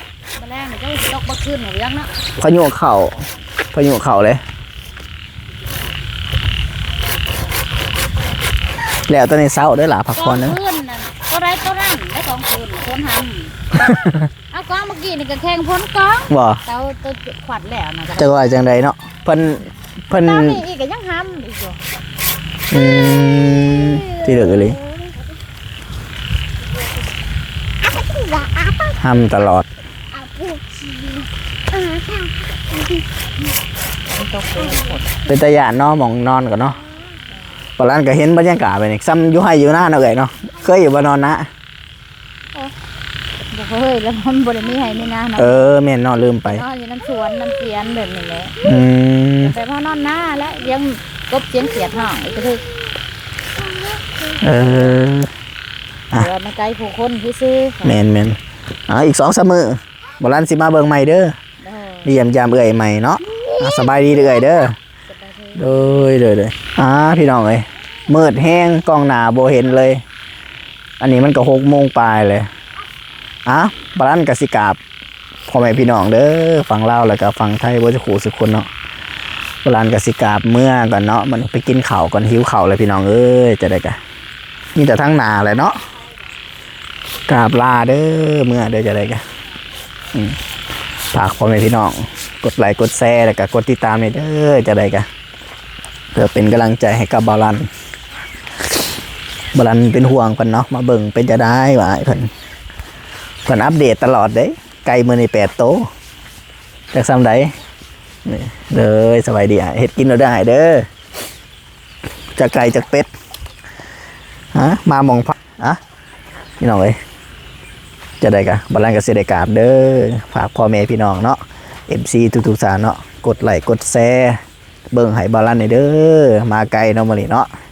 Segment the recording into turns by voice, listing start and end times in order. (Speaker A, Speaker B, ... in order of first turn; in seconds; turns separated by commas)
Speaker A: 0.3-2.1, Speaker B: 2.4-4.4, Speaker B: 9.1-10.6, Speaker A: 10.1-13.6, Speaker B: 13.9-14.2, Speaker A: 14.5-18.5, Speaker B: 16.3-16.6, Speaker B: 18.2-20.6, Speaker A: 20.2-21.8, Speaker B: 22.7-24.8, Speaker B: 29.0-29.7, Speaker A: 34.1-35.1, Speaker B: 35.2-36.8, Speaker B: 37.8-41.5, Speaker A: 43.5-45.7, Speaker B: 45.4-46.6, Speaker A: 46.4-48.6, Speaker B: 48.6-49.5, Speaker A: 49.4-52.7, Speaker B: 54.4-55.3, Speaker A: 56.1-58.0, Speaker B: 57.8-58.4, Speaker B: 58.9-61.4, Speaker A: 61.6-62.1, Speaker B: 62.0-64.8, Speaker A: 65.1-65.8, Speaker B: 65.5-70.0, Speaker B: 71.0-72.5, Speaker B: 73.5-74.8, Speaker B: 75.5-78.7, Speaker B: 79.6-84.0, Speaker B: 84.8-85.8, Speaker B: 87.3-89.2, Speaker B: 90.1-90.4, Speaker B: 91.1-95.1, Speaker B: 96.1-97.7, Speaker B: 99.5-102.3, Speaker B: 103.4-105.9, Speaker B: 106.9-107.5, Speaker B: 108.2-110.8, Speaker B: 112.3-113.1, Speaker B: 114.5-115.8, Speaker B: 116.6-117.0, Speaker B: 118.2-124.4, Speaker B: 124.9-127.5